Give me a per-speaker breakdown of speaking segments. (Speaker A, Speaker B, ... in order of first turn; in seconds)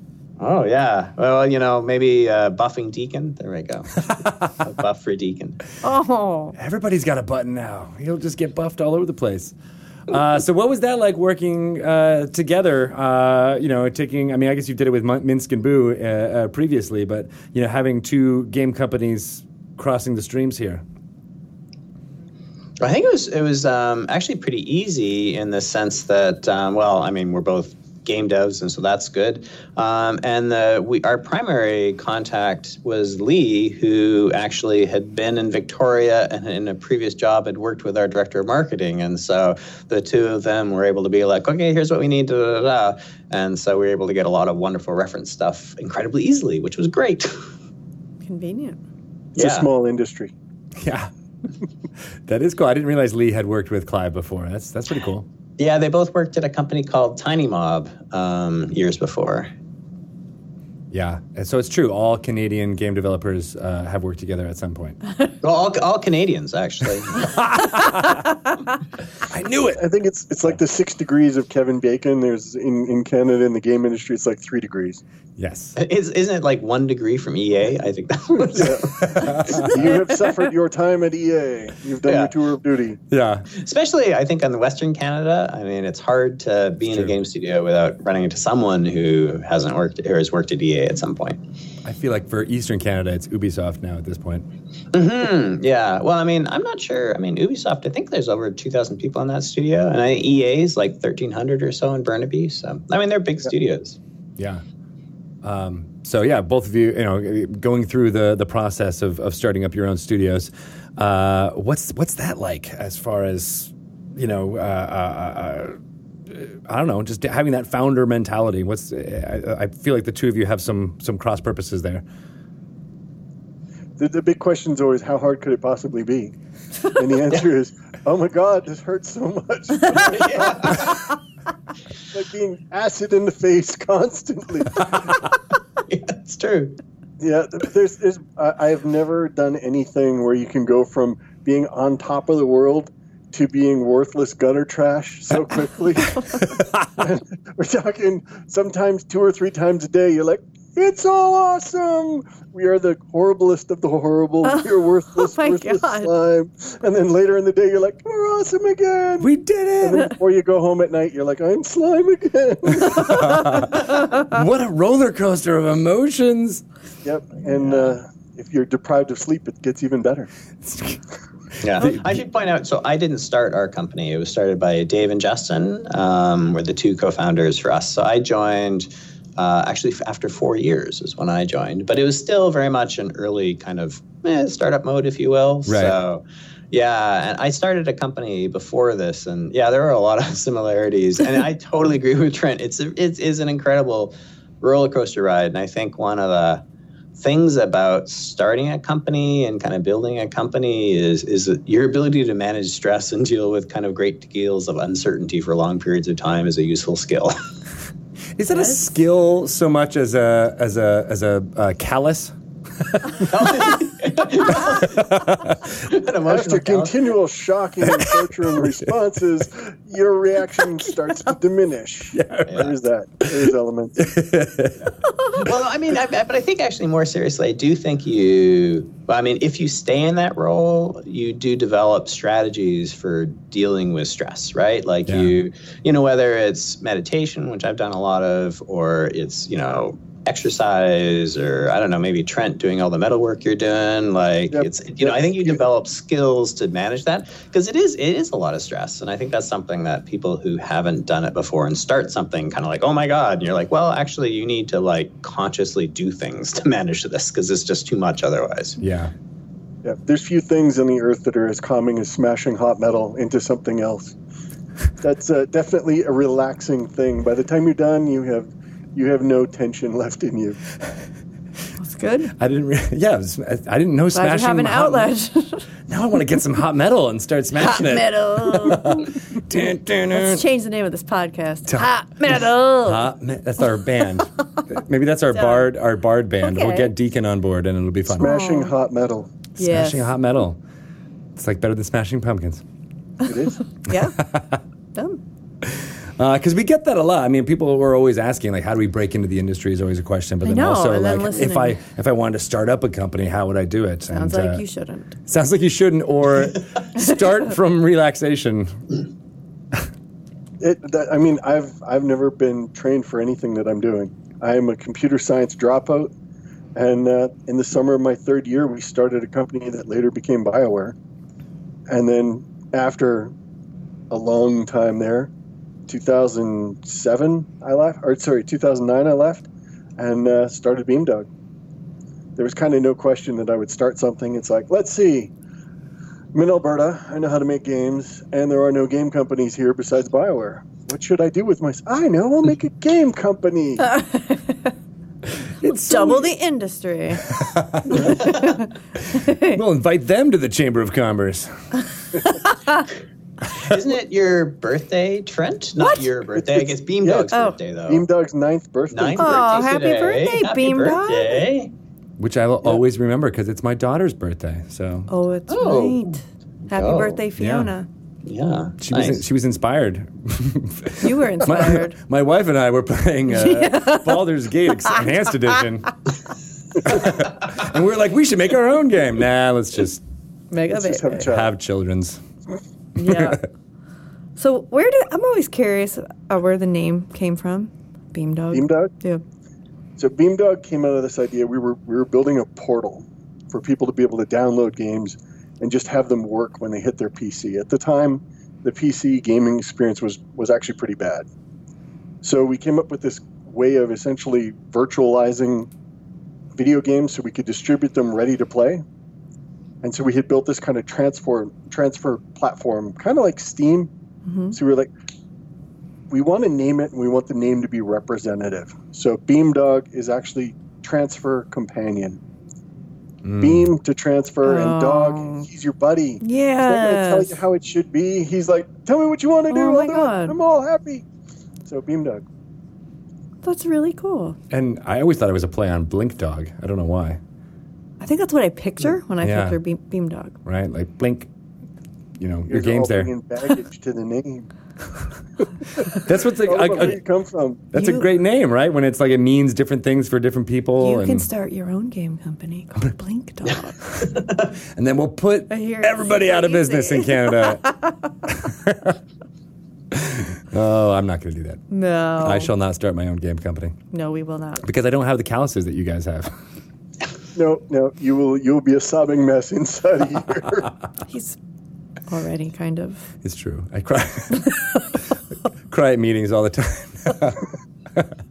Speaker A: 0.4-5.6, 22.8-47.3, 49.4-49.7, 55.6-59.5, 65.4-67.3, 75.8-79.8, 82.0-82.3, 83.5-91.4, 94.9-104.0, 130.0-131.0, 135.9-136.8, 167.6-167.9, 171.6-196.6, 197.2-207.3, 213.2-217.1, 222.5-222.7, 225.3-258.8, 348.0-348.4, 353.4-358.1, 358.9-361.7, 365.5-366.1, 366.7-367.2, 368.2-369.2, 454.1-454.4
Speaker B: 5.8-6.5, 48.2-48.8, 154.4-156.1, 163.1-164.2, 271.8-272.3, 274.1-275.6, 277.5-279.1, 280.1-283.0, 285.3-285.7, 286.4-286.9, 288.2-288.7, 289.6-290.1, 293.8-294.2, 294.9-295.2, 300.4-301.8, 304.1-305.1, 343.9-344.6, 345.7-347.2, 347.9-349.6, 357.3-357.6, 359.2-361.4, 365.1-367.9, 371.0-372.0, 373.3-375.0, 380.5-381.3, 382.9-383.4, 384.4-389.2, 414.2-414.6, 424.4-425.4, 426.2-427.4, 429.5-430.4, 433.4-434.4, 438.0-440.3, 447.7-448.1, 450.8-453.8, 455.5-457.9, 461.7-462.5, 463.9-464.6, 471.1-471.4, 472.1-473.1
Speaker C: 6.5-9.5, 10.1-20.8, 50.8-51.1, 52.3-55.2, 60.9-65.0, 67.1-68.2, 69.2-69.8, 75.4-75.8, 79.0-80.0, 83.1-83.5, 86.9-87.1, 91.8-94.4, 104.4-104.6, 105.4-115.8, 116.3-122.0, 159.2-160.1, 162.8-166.6, 170.6-171.0, 171.8-172.2, 185.7-186.0, 208.4-212.3, 213.0-213.3, 214.8-215.7, 218.0-218.2, 222.1-222.7, 223.3-224.9, 235.1-235.3, 258.8-259.1, 272.4-275.1, 275.9-280.4, 282.8-288.3, 289.6-290.6, 291.4-292.6, 294.2-294.6, 295.6-304.6, 305.3-308.9, 345.6-346.3, 347.2-348.2, 349.1-351.5, 362.2-365.1, 367.4-367.7, 368.8-375.9, 376.8-380.0, 381.2-382.2, 383.0-383.4, 423.2-423.7, 434.5-437.2, 439.2-439.6, 440.4-441.3, 442.2-443.1, 445.9-447.0, 447.7-451.3, 454.7-459.0, 459.9-461.6, 462.2-463.7, 464.6-466.3, 473.2-475.0, 475.7-477.4
Speaker D: 49.4-50.3, 69.8-75.0, 78.5-83.0, 124.0-126.3, 126.9-130.9, 132.1-135.2, 137.2-159.3, 159.8-163.6, 167.0-170.3, 216.2-224.0, 244.5-245.6, 259.8-264.1, 265.0-270.6, 288.1-289.3, 293.2-293.6, 310.6-316.1, 316.7-320.9, 321.9-323.3, 324.1-325.3, 325.9-329.5, 330.0-331.3, 332.4-335.3, 336.3-343.9, 356.3-357.3, 357.9-359.4, 380.7-381.5, 388.5-388.9, 390.0-401.2, 402.2-405.7, 406.6-408.8, 409.8-413.9, 414.5-414.9, 416.1-422.2, 423.4-431.0, 431.6-432.2, 442.5-444.5, 445.8-447.6, 467.3-470.7